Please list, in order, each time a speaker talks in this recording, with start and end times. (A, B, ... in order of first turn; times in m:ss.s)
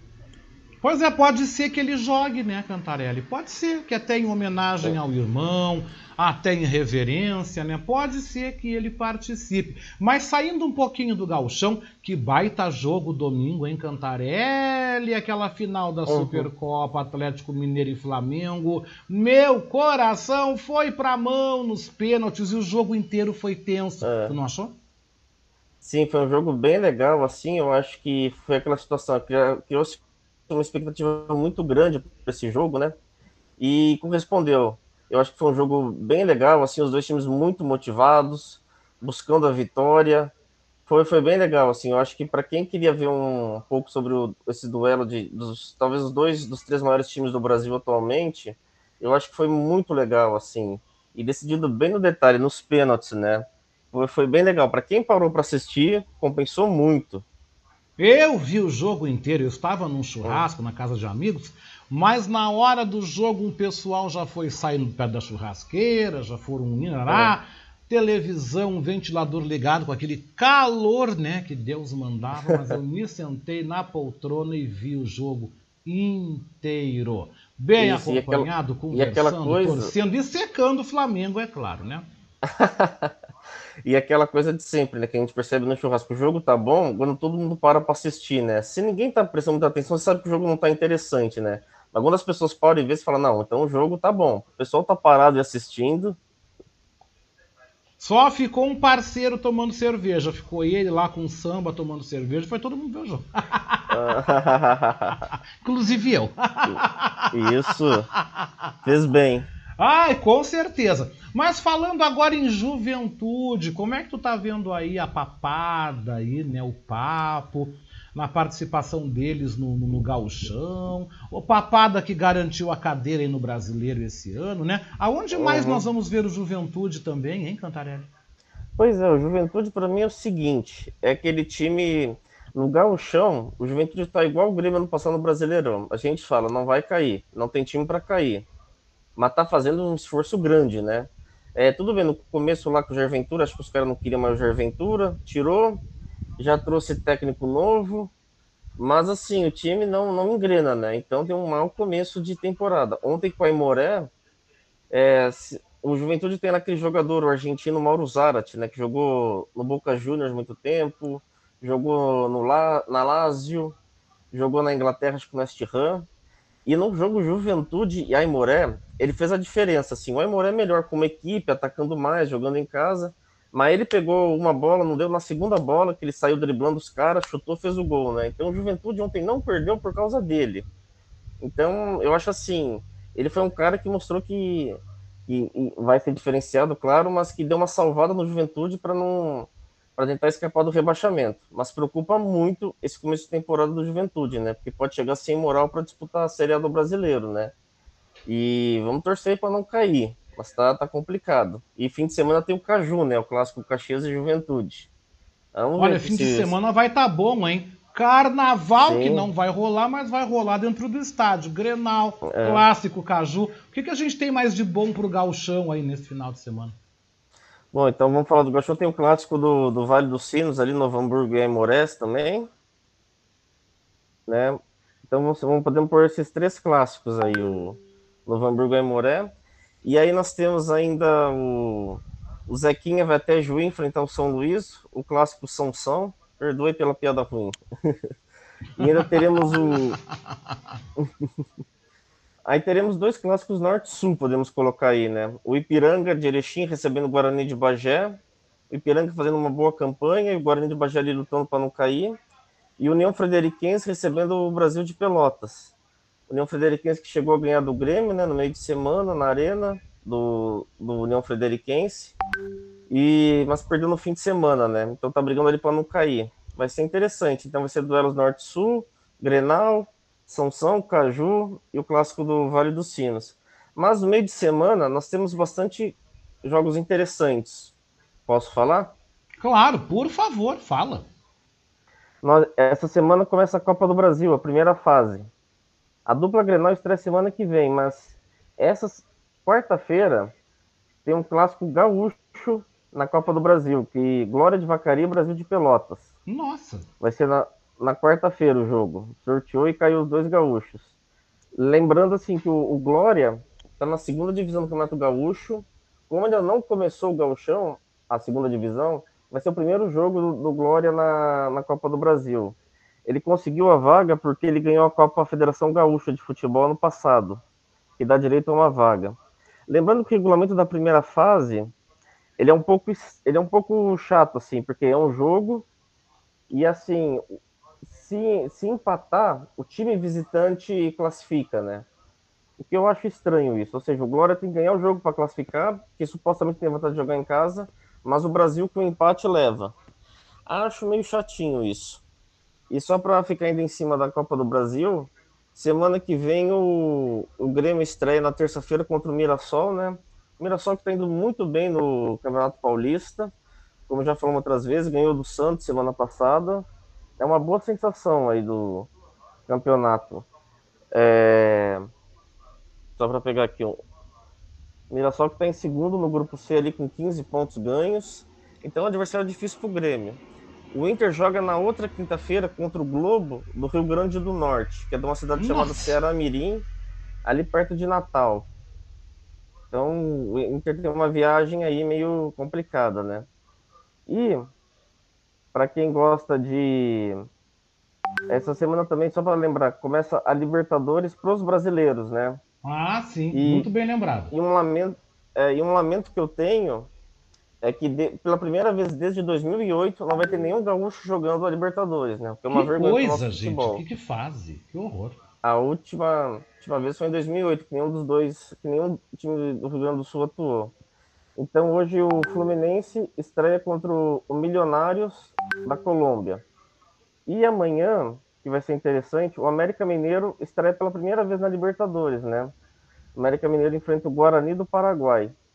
0:00.8-0:24.7 A
0:16.1-0:16.5 B
0:24.0-0:24.4 B
0:25.8-0:30.0 B
0:30.5-0:33.0 B
0:33.6-0:40.3 B
0:40.9-0:57.2 B
0:58.0-1:22.1 A
1:07.1-1:07.3 B
1:12.5-1:12.7 B
1:17.8-1:19.9 B
1:22.5-1:23.1 B
1:23.8-1:36.2 B
1:38.0-1:43.9 A
1:43.9-1:45.2 B
1:45.6-1:47.3 A
1:47.3-1:48.1 B
1:48.9-1:49.5 B
1:49.8-2:08.1 A
2:05.3-2:05.8 B
2:08.8-2:18.5 B
2:19.2-2:25.8 B
2:26.4-2:28.1 B
2:28.8-2:34.1 B
2:34.9-2:43.7 B
2:44.3-2:46.1 B
2:46.7-3:00.7 B
3:01.4-3:17.5 B
3:18.3-3:24.9 B
3:25.5-3:26.5 B
3:25.8-3:36.8 A
3:28.8-3:29.3 B
3:32.2-3:32.6 B
3:37.7-3:42.5 B
3:44.3-3:49.3 B
3:49.8-3:57.6 B
3:58.8-3:59.0 A
3:58.8-4:00.0 B
4:02.4-4:08.2 B
4:08.7-4:12.2 B
4:12.8-4:15.7 B
4:16.3-4:22.1 B
4:22.9-4:37.7 B
4:38.3-4:38.9 B
4:39.4-4:41.1 A
4:42.2-4:45.3 B
4:46.1-4:50.3 B
4:51.0-4:56.1 B
4:56.3-4:56.9 A
4:57.0-5:00.9 B
5:01.6-5:17.4 B
5:18.0-5:21.7 B
5:22.4-5:25.6 B
5:26.5-5:27.2 B
5:27.9-5:31.9 B
5:32.6-5:39.7 B
5:40.5-5:42.0 B
5:42.7-5:53.3 B
5:53.9-5:56.7 B
5:57.2-5:58.9 B
5:59.5-6:00.3 B
6:00.9-6:01.9 B
6:03.0-6:03.8 B
6:04.9-6:10.2 B
6:10.7-6:16.7 B
6:15.4-6:15.9 A
6:17.2-6:18.5 B
6:19.7-6:23.3 B
6:24.1-6:24.5 B
6:25.5-6:27.3 B
6:28.3-6:32.4 B
6:32.6-6:34.3 A
6:33.3-6:33.7 B
6:34.3-6:36.9 B
6:37.6-6:43.8 B
6:42.5-6:45.2 A
6:45.4-6:50.7 B
6:51.4-6:56.4 B
6:57.3-7:02.5 B
7:03.2-7:05.3 B